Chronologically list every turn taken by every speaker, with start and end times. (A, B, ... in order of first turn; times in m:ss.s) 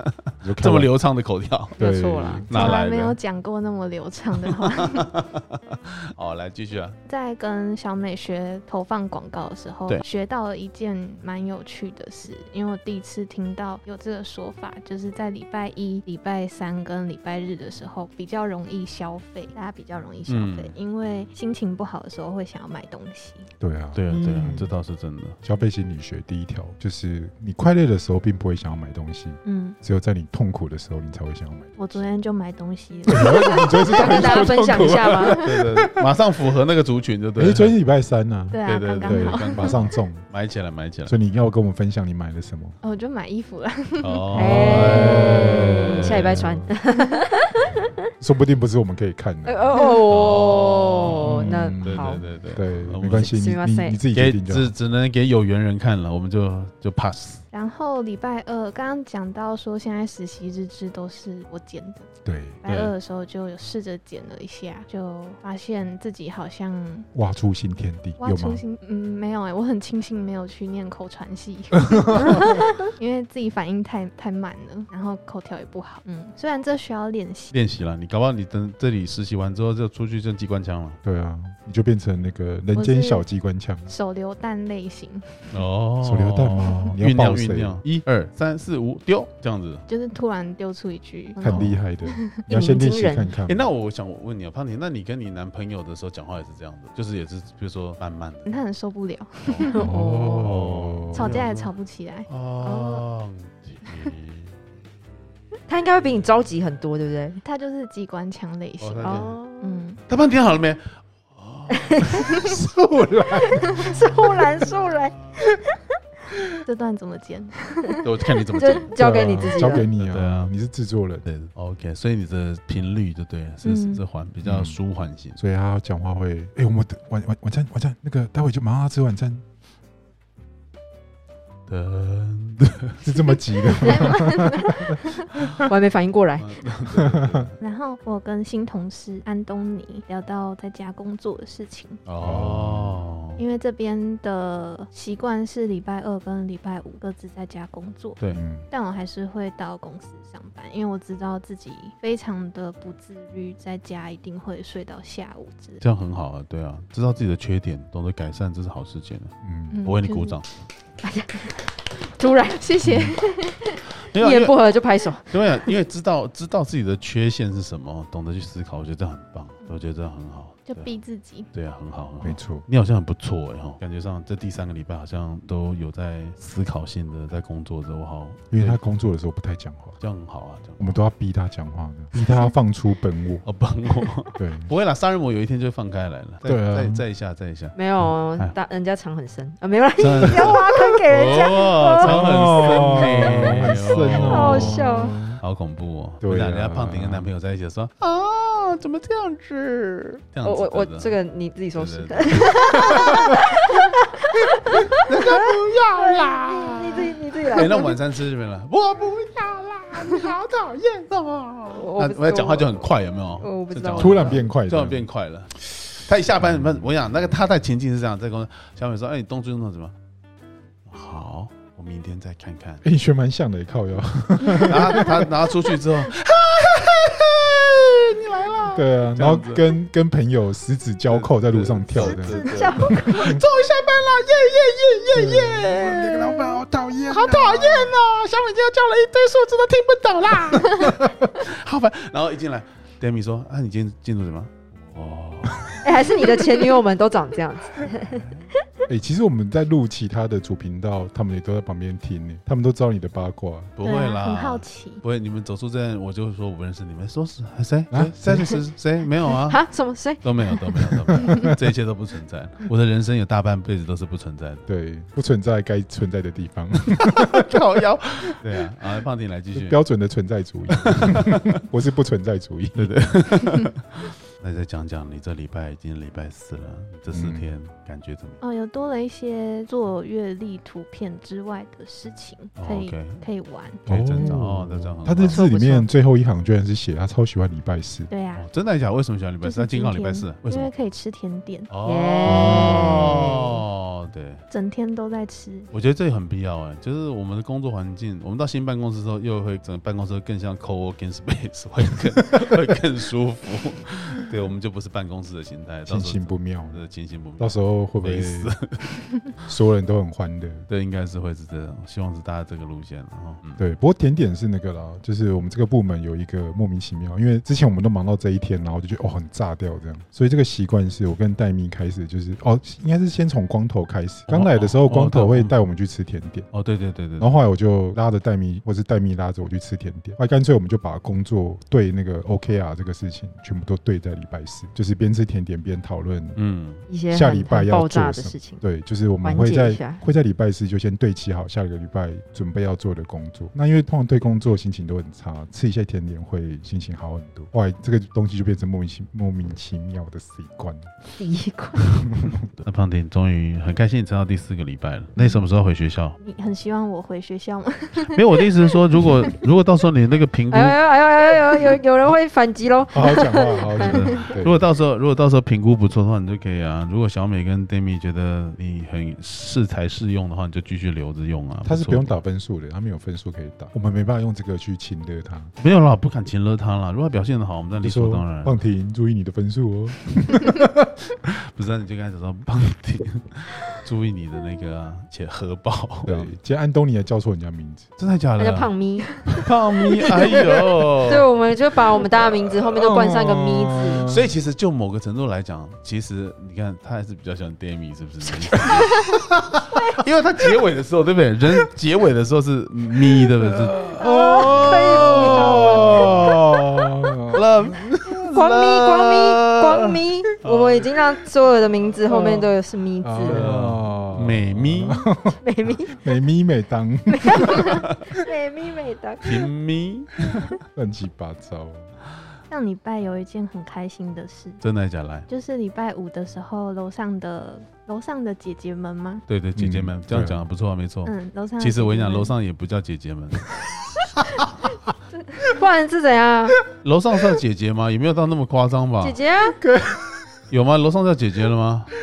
0:00.4-0:00.9 A
0:00.6-0:01.8 B
0:01.8-0:02.7 A
0:01.8-0:02.5 C
0:02.5-0:03.2 B
0:02.5-0:05.1 D
0:04.5-0:07.0 B
0:07.0-0:23.5 D
0:20.3-0:20.7 B
0:23.6-0:24.7 A
0:23.9-0:25.4 B
0:24.1-0:24.7 C
0:25.4-0:31.7 A
0:29.4-0:29.8 D
0:31.8-0:35.4 D
0:33.1-0:35.9 A
0:33.9-0:35.4 C
0:35.4-0:37.7 B
0:37.4-0:40.2 A
0:38.5-0:39.8 D
0:38.6-0:41.1 B
0:41.0-0:42.8 A
0:42.8-0:44.2 D
0:44.0-0:46.4 B
0:44.3-0:47.8 C
0:44.3-0:46.7 A
0:48.2-0:49.8 A
0:49.4-0:52.2 C
0:50.1-0:53.3 B
0:51.2-0:54.7 A
0:53.1-0:54.0 C
0:54.1-0:57.4 B
0:57.5-1:02.1 D
1:02.2-1:02.7 A
1:02.6-1:07.1 D
1:02.7-1:02.9 B
1:07.1-1:08.6 A
1:08.2-1:17.5 D
1:11.9-1:12.4 A
1:17.5-1:21.0 B
1:21.0-1:23.9 A
1:22.7-1:23.2 D
1:23.9-1:25.6 D
1:25.5-1:29.8 B
1:26.0-1:27.8 A
1:26.7-1:27.0 D
1:29.9-1:32.4 D
1:31.4-1:33.7 A
1:31.4-1:31.8 B
1:32.5-1:33.3 C
1:33.4-1:38.6 B
1:38.4-1:39.9 D
1:39.4-1:39.8 B
1:39.7-1:40.5 C
1:39.8-1:41.4 A
1:40.3-1:41.7 B
1:41.1-1:43.0 D
1:42.3-1:44.6 B
1:45.7-1:47.4 C
1:47.4-1:50.0 D
1:48.8-1:49.4 B
1:49.0-1:49.8 C
1:50.1-1:52.5 B
1:51.7-1:52.2 C
1:52.4-1:54.1 A
1:53.6-1:55.2 C
1:56.6-1:58.8 D
1:58.0-1:58.9 B
1:58.6-1:59.9 C
1:59.0-2:01.2 A
2:00.0-2:00.5 B
2:01.2-2:05.4 B
2:03.6-2:04.0 D
2:04.4-2:04.8 A
2:05.4-2:09.4 A
2:11.7-2:13.4 B
2:13.0-2:15.6 A
2:13.8-2:15.2 D
2:15.6-2:16.5 C
2:16.4-2:17.6 B
2:16.9-2:17.5 A
2:17.6-2:22.0 D
2:22.0-2:23.4 B
2:22.2-2:23.0 A
2:23.4-2:35.8 D
2:28.2-2:28.4 B
2:28.3-2:28.6 A
2:35.8-2:40.5 B
2:39.4-2:39.8 A
2:39.7-2:40.4 D
2:41.0-2:42.7 C
2:42.5-2:43.6 D
2:42.8-2:43.2 A
2:44.1-2:44.6 B
2:44.1-2:45.4 C
2:45.3-2:50.9 B
2:50.7-2:51.5 D
2:51.5-2:58.8 B
2:52.2-2:52.6 A
2:58.5-3:00.0 A
3:00.0-3:01.0 B
3:00.8-3:03.4 A
3:03.4-3:08.6 B
3:04.4-3:04.7 A
3:06.4-3:07.0 A
3:07.8-3:12.2 C
3:10.0-3:14.8 B
3:12.0-3:15.4 A
3:13.2-3:13.6 C
3:14.1-3:15.2 C
3:15.4-3:21.1 B
3:16.2-3:17.3 A
3:20.4-3:27.9 C
3:21.7-3:23.2 B
3:25.0-3:39.9 B
3:31.7-3:32.8 C
3:33.4-3:34.4 C
3:34.0-3:35.1 A
3:40.9-3:42.8 B
3:42.8-3:45.3 A
3:44.6-3:49.7 B
3:48.7-3:52.5 A
3:51.1-4:05.8 B
3:52.0-3:53.4 C
3:53.1-3:53.4 A
3:55.1-3:57.9 A
4:00.8-4:01.2 A
4:05.8-4:08.3 C
4:08.9-4:13.7 A
4:13.8-4:19.6 B
4:13.8-4:15.0 D
4:17.9-4:18.6 A
4:19.5-4:20.2 C
4:20.2-4:24.6 B
4:21.1-4:21.5 A
4:24.7-4:27.5 A
4:27.1-4:29.8 B
4:29.5-4:33.0 A
4:30.7-4:31.6 B
4:32.8-4:38.4 B
4:37.1-4:37.5 A
4:38.4-4:44.3 D
4:42.6-4:43.2 B
4:43.8-4:45.4 B
4:43.9-4:48.1 A
4:45.2-4:45.9 C
4:48.1-4:48.5 D
4:48.3-4:50.7 B
4:49.4-4:51.7 D
4:51.7-4:54.4 B
4:51.8-4:53.2 C
4:52.2-4:53.2 A
4:54.5-4:55.7 D
4:55.7-5:09.1 B
5:05.9-5:06.8 A
5:07.4-5:08.5 A
5:09.4-5:10.7 A
5:10.7-5:13.6 B
5:13.6-5:26.5 A
5:24.3-5:25.5 B
5:26.5-5:27.3 B
5:27.2-5:36.4 A
5:36.4-5:36.8 B
5:36.9-5:38.6 C
5:37.1-5:50.9 A
5:39.2-5:40.0 C
5:51.2-5:51.8 C
5:52.0-5:52.4 A
5:52.5-5:56.2 B
5:56.2-5:58.5 D
5:58.0-6:00.8 B
6:00.5-6:03.9 C
6:02.9-6:04.6 A
6:03.8-6:12.2 B
6:11.6-6:15.5 A
6:15.6-6:18.6 B
6:17.8-6:20.9 A
6:21.3-6:26.3 B
6:26.0-6:27.9 A
6:28.0-6:28.7 B
6:28.4-6:29.3 C
6:29.3-6:31.2 B
6:31.0-6:34.1 C
6:32.7-6:34.3 A
6:34.1-6:46.6 B
6:38.5-6:38.8 A
6:43.1-6:47.8 A
6:44.0-6:46.1 C
6:47.3-6:50.9 B
6:48.3-6:53.4 C
6:53.0-6:57.9 A
6:53.2-6:55.1 B
6:55.4-6:56.0 C
6:57.1-6:59.3 C
6:59.2-7:00.2 B
7:00.7-7:01.9 A
7:02.5-7:04.6 D
7:04.6-7:05.3 B
7:05.3-7:09.2 D
7:09.3-7:13.5 B
7:09.6-7:10.4 A
7:11.0-7:12.3 D
7:15.5-7:16.6 C
7:16.8-7:19.2 B
7:19.0-7:19.6 C
7:19.6-7:20.4 A
7:20.5-7:21.9 B